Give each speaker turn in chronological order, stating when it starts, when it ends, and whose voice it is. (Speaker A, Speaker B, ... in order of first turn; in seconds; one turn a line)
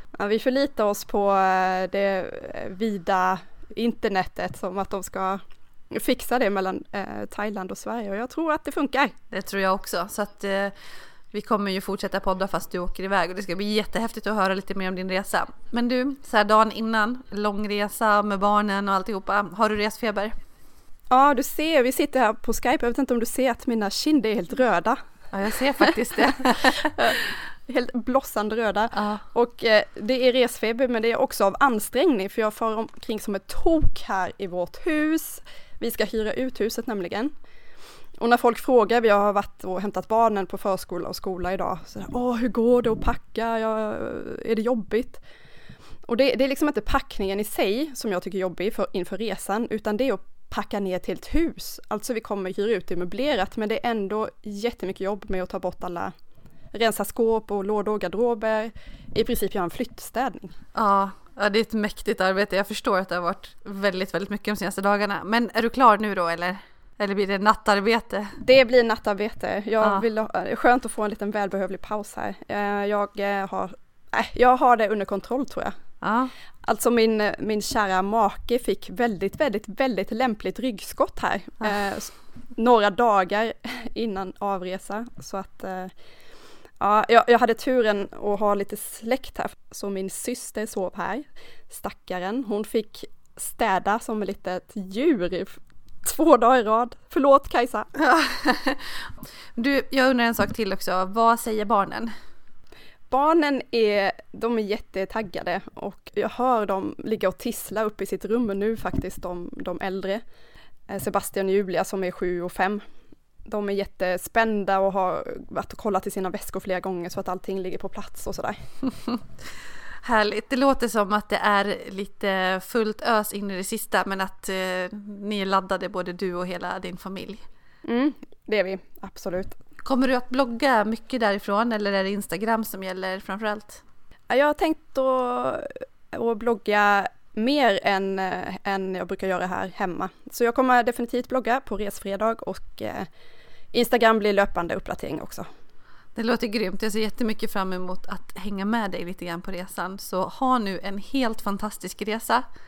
Speaker A: 0.2-5.4
Speaker A: 5.9-9.1
Speaker B: 9.3-10.7
Speaker B: 11.3-20.3
Speaker A: 21.1-25.0
Speaker B: 25.3-27.1
Speaker A: 25.8-37.3
Speaker B: 28.9-29.2
Speaker A: 38.2-45.2
Speaker A: 46.0-56.1
Speaker A: 56.7-60.5
Speaker B: 60.7-68.3
Speaker A: 68.4-75.7
Speaker B: 76.0-76.3
Speaker A: 76.6-85.9
Speaker A: 86.8-97.9
Speaker B: 98.0-99.0
Speaker B: 99.5-102.1
Speaker A: 103.1-110.2
Speaker A: 110.9-112.8
Speaker A: 113.5-118.6
Speaker B: 120.0-127.4
Speaker A: 127.8-129.6
Speaker B: 129.8-133.8
Speaker A: 134.3-143.1
Speaker A: 143.7-145.5
Speaker B: 146.1-152.4